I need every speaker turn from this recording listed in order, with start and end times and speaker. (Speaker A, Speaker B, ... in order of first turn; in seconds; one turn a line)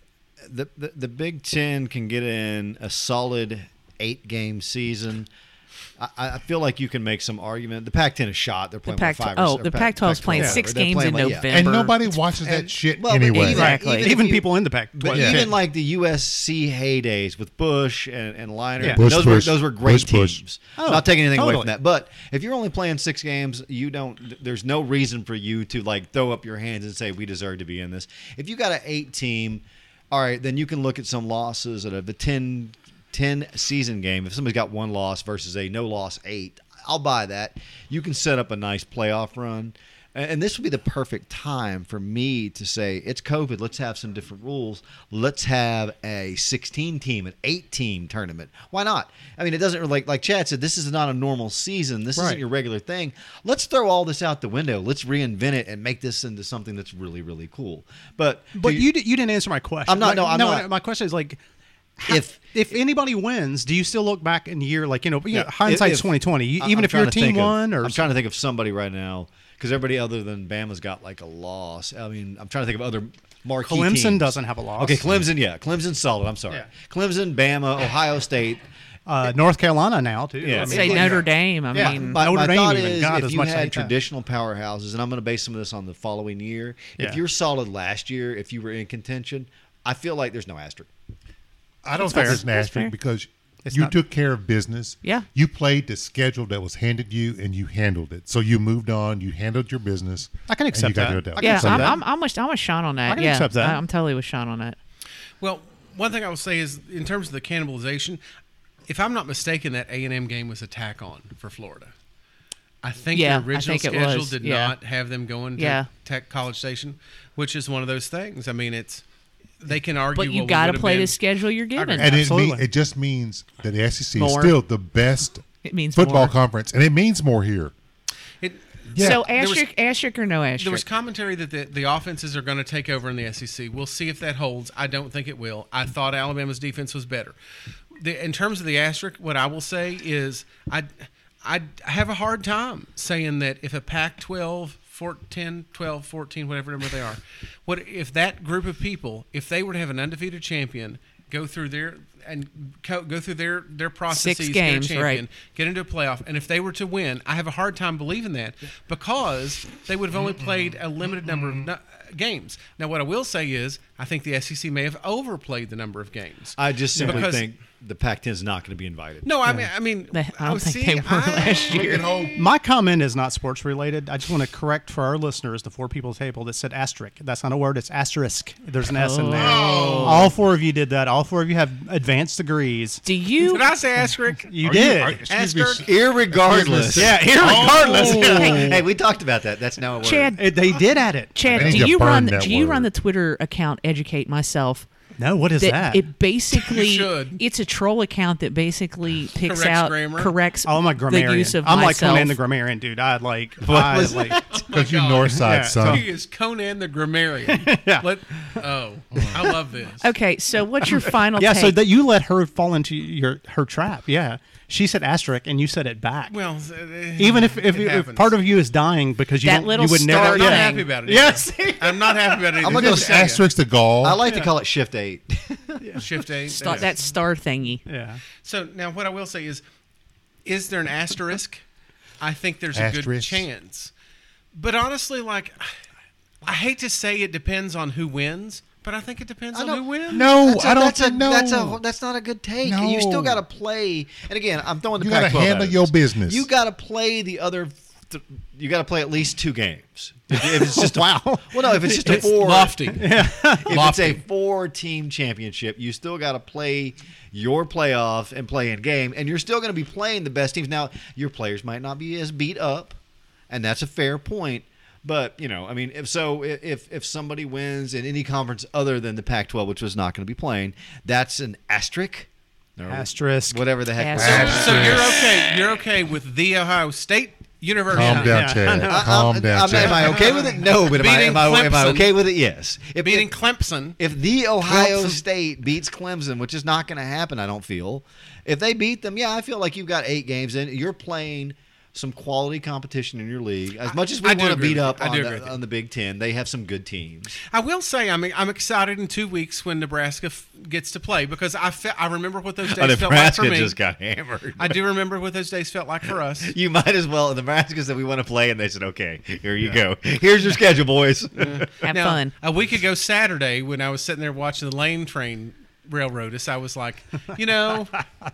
Speaker A: 0.4-5.3
Speaker A: 6.0-11.7
Speaker B: 8.9-12.2
Speaker C: 11.5-13.7
Speaker A: 12.4-58.9
Speaker B: 13.3-14.1
Speaker D: 13.5-15.6
Speaker C: 15.1-15.5
Speaker D: 18.8-19.3
Speaker C: 18.8-20.4
Speaker D: 20.8-21.7
Speaker D: 52.1-52.4
Speaker D: 58.5-61.4
Speaker A: 59.9-60.7
Speaker D: 62.0-68.1
Speaker A: 62.1-62.5
Speaker A: 65.3-78.6
Speaker D: 73.6-75.1
Speaker D: 79.1-83.9
Speaker A: 80.4-90.9
Speaker B: 80.6-82.2
Speaker C: 91.8-102.0
Speaker B: 92.0-92.9
Speaker D: 92.0-92.4
Speaker D: 93.6-93.9
Speaker D: 100.5-102.0
Speaker B: 101.4-104.8
Speaker D: 103.1-103.8
Speaker E: 105.4-108.2
Speaker E: 108.9-111.9
Speaker E: 112.8-119.0
Speaker B: 113.1-114.8
Speaker B: 115.5-115.9
Speaker E: 119.6-121.2
Speaker B: 120.1-122.2
Speaker E: 121.8-122.1
Speaker C: 122.0-127.7
Speaker D: 122.0-122.6
Speaker A: 124.2-124.5
Speaker B: 125.6-126.3
Speaker E: 128.4-129.7
Speaker C: 128.9-129.2
Speaker B: 129.0-130.8
Speaker E: 130.6-137.3
Speaker E: 138.0-140.9
Speaker E: 141.4-167.4
Speaker B: 154.1-155.2
Speaker C: 160.3-160.7
Speaker A: 166.6-169.6
Speaker D: 166.9-167.3
Speaker E: 169.2-171.9
Speaker B: 170.1-172.1
Speaker C: 171.7-172.5
Speaker D: 172.3-183.0
Speaker B: 178.8-180.3
Speaker C: 179.3-180.3
Speaker B: 183.0-183.7
Speaker E: 183.4-184.5
Speaker D: 184.5-185.3
Speaker C: 184.6-188.8
Speaker E: 185.2-185.8
Speaker A: 185.8-190.3
Speaker D: 186.9-188.8
Speaker B: 188.3-188.7
Speaker B: 190.0-190.4
Speaker D: 190.3-191.9
Speaker B: 191.3-194.9
Speaker C: 191.5-192.9
Speaker D: 195.2-196.0
Speaker B: 195.6-202.4
Speaker E: 196.5-197.4
Speaker E: 199.4-200.3
Speaker D: 200.6-204.4
Speaker A: 203.6-204.6
Speaker E: 204.5-210.1
Speaker C: 204.7-206.1
Speaker D: 205.3-206.1
Speaker D: 207.5-208.6
Speaker B: 210.0-211.8
Speaker D: 211.3-216.3
Speaker E: 216.3-218.3
Speaker D: 217.2-222.5
Speaker B: 219.4-220.9
Speaker E: 220.1-223.3
Speaker A: 222.6-223.4
Speaker C: 222.7-224.2
Speaker A: 224.0-226.0
Speaker D: 224.2-224.5
Speaker E: 225.9-226.9
Speaker B: 226.5-227.8
Speaker D: 227.8-228.2
Speaker E: 228.4-229.6
Speaker E: 230.4-231.6
Speaker E: 232.2-233.9
Speaker C: 232.7-233.4
Speaker E: 234.5-235.7
Speaker E: 236.4-240.3
Speaker A: 239.5-263.0
Speaker C: 240.1-241.8
Speaker C: 242.6-243.4
Speaker C: 244.9-246.5
Speaker D: 250.3-252.3
Speaker E: 252.0-253.1
Speaker D: 252.9-253.8
Speaker E: 253.7-254.2
Speaker A: 263.5-275.1
Speaker D: 272.9-273.6
Speaker B: 274.0-274.6
Speaker C: 274.2-275.4
Speaker E: 274.2-278.6
Speaker C: 277.9-280.2
Speaker D: 277.9-279.1
Speaker A: 278.7-283.3
Speaker E: 279.7-282.1
Speaker E: 283.0-284.0
Speaker A: 284.0-297.3
Speaker D: 284.6-285.2
Speaker E: 293.9-295.6
Speaker E: 297.5-303.8
Speaker A: 302.7-304.8
Speaker E: 304.6-306.5
Speaker A: 306.4-311.7
Speaker E: 311.4-318.0
Speaker B: 311.8-312.3